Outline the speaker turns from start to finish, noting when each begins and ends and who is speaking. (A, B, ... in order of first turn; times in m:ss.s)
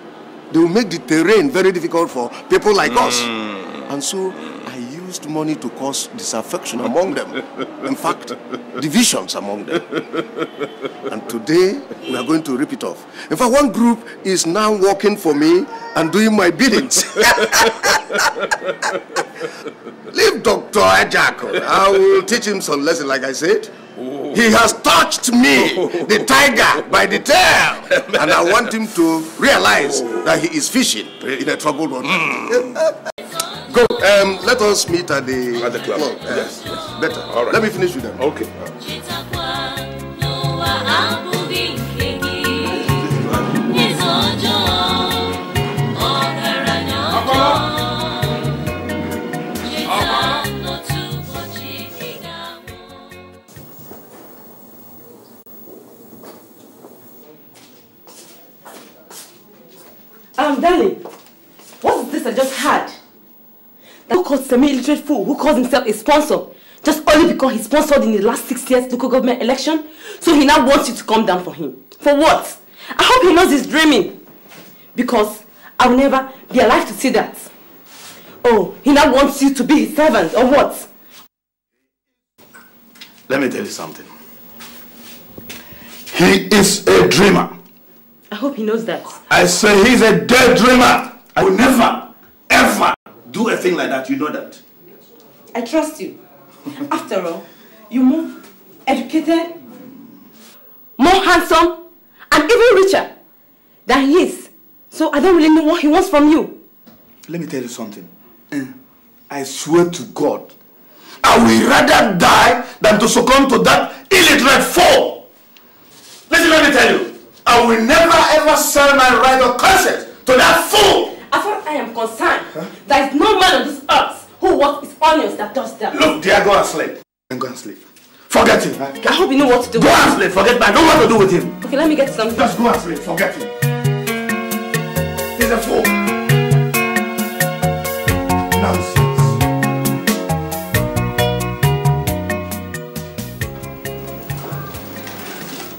0:00.5-0:10.0 A
0:11.0-0:18.2 A
0:20.1-0:23.7 A
0:24.0-0:24.3 B
0:24.3-0:33.0 A
0:28.0-0:28.5 B
0:32.1-0:32.6 B
0:33.7-0:38.2 A
0:35.5-0:37.6 B
0:38.2-0:38.5 B
0:38.8-0:43.0 C
0:43.6-0:45.4 C
0:45.9-0:48.4 C
0:47.1-0:47.6 B
0:49.6-0:53.1 C
1:00.4-1:01.0 D
1:01.8-1:03.0 D
1:04.1-1:14.1 D
1:14.9-1:17.5 D
1:18.4-1:20.8 D
1:23.3-1:24.1 E
1:26.1-1:27.5 E
1:28.3-1:29.2 D
1:29.3-1:34.6 E
1:35.5-1:36.2 D
1:36.7-1:38.3 D
1:38.8-1:39.6 D
1:41.0-1:41.8 D
1:42.3-1:43.1 D
1:43.9-1:46.5 D
1:47.3-1:48.7 E
1:49.3-1:50.5 E
1:52.6-1:55.1 E
1:56.3-2:01.1 E
2:01.2-2:06.0 D
2:05.9-2:09.0 E
2:09.0-2:10.2 D
2:11.6-2:12.4 D
2:12.3-2:13.5 E
2:15.4-2:15.9 E
2:18.5-2:19.4 E